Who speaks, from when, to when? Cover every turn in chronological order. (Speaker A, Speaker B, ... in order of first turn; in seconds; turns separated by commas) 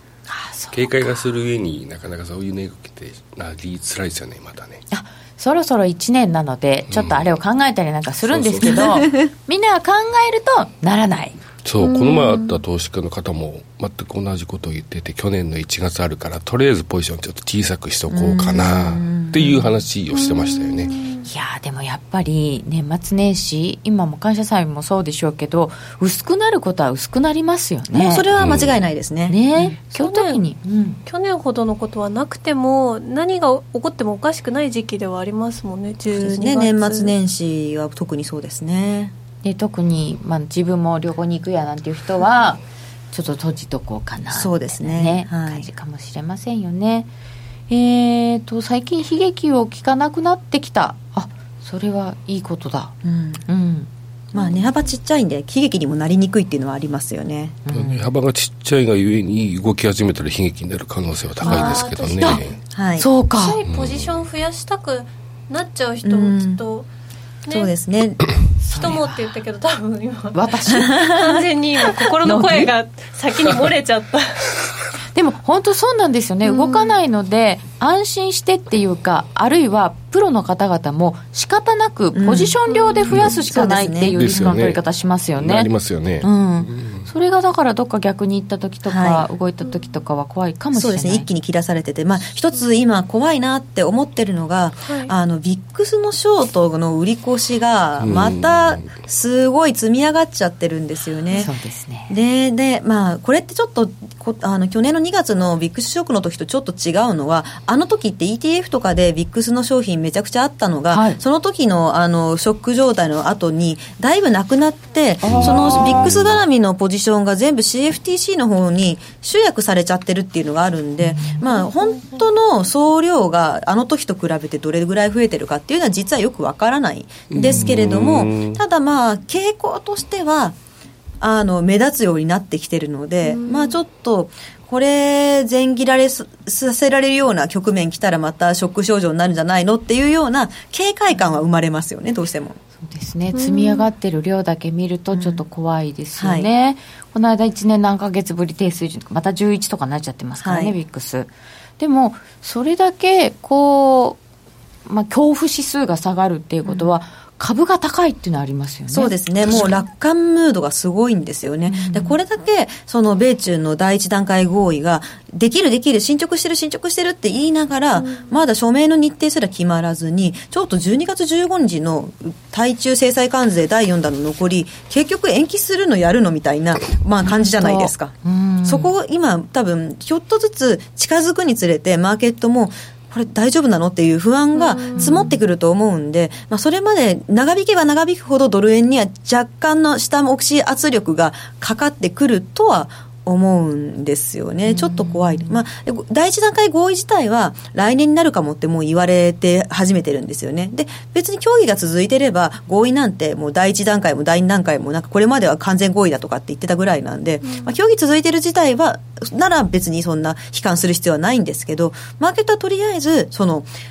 Speaker A: 0.3-1.2, Speaker B: 0.7-4.8, Speaker A: 4.9-11.4, Speaker B: 6.9-7.3, Speaker B: 8.2-9.0, Speaker C: 8.6-9.3, Speaker B: 11.6-20.9, Speaker D: 11.8-12.6, Speaker C: 18.1-19.7, Speaker D: 20.1-21.3, Speaker A: 21.2-28.3, Speaker C: 27.9-29.7, Speaker B: 28.4-28.8, Speaker A: 29.3-31.0, Speaker D: 29.9-30.4, Speaker D: 31.1-37.1, Speaker C: 36.1-39.1, Speaker A: 39.4-42.6, Speaker A: 43.1-47.1, Speaker C: 44.3-45.7, Speaker A: 47.7-53.0, Speaker C: 53.0-53.4, Speaker A: 53.5-53.9, Speaker C: 54.3-57.6, Speaker D: 54.4-54.6, Speaker A: 57.7-58.0, Speaker B: 57.7-62.6, Speaker D: 61.4-62.6, Speaker A: 61.5-62.4, Speaker C: 62.7-63.1, Speaker A: 63.0-63.6, Speaker D: 63.4-66.9, Speaker B: 63.7-64.2, Speaker C: 66.0-66.6, Speaker D: 67.5-67.7, Speaker C: 67.5-68.2, Speaker A: 68.6-69.2, Speaker D: 68.7-74.5, Speaker A: 70.3-71.1, Speaker C: 70.8-71.4, Speaker A: 72.2-72.7, Speaker A: 75.1-85.7, Speaker D: 76.4-77.0, Speaker C: 82.1-82.6, Speaker D: 82.7-83.0, Speaker B: 83.1-83.3, Speaker C: 83.2-84.6, Speaker B: 84.1-84.8, Speaker B: 85.4-87.1, Speaker C: 86.2-86.7, Speaker A: 87.1-91.3, Speaker C: 88.9-89.3, Speaker C: 90.7-101.5, Speaker D: 94.8-95.1, Speaker B: 98.0-98.9, Speaker A: 101.4-102.1, Speaker C: 102.1-130.6, Speaker A: 110.9-111.2, Speaker A: 115.2-116.1, Speaker B: 115.3-116.2, Speaker A: 121.0-121.4, Speaker B: 127.3-128.6, Speaker C: 131.2-142.6, Speaker D: 133.2-133.8, Speaker A: 142.8-154.2, Speaker D: 143.3-143.9, Speaker C: 145.1-145.4, Speaker C: 146.2-146.5, Speaker C: 150.4-150.8, Speaker A: 154.9-159.7, Speaker C: 156.7-156.9, Speaker C: 158.9-213.7, Speaker A: 161.7-162.2, Speaker D: 168.0-168.3, Speaker A: 177.2-178.9, Speaker D: 184.5-185.2, Speaker A: 185.0-185.4, Speaker A: 194.7-195.6, Speaker D: 207.4-207.7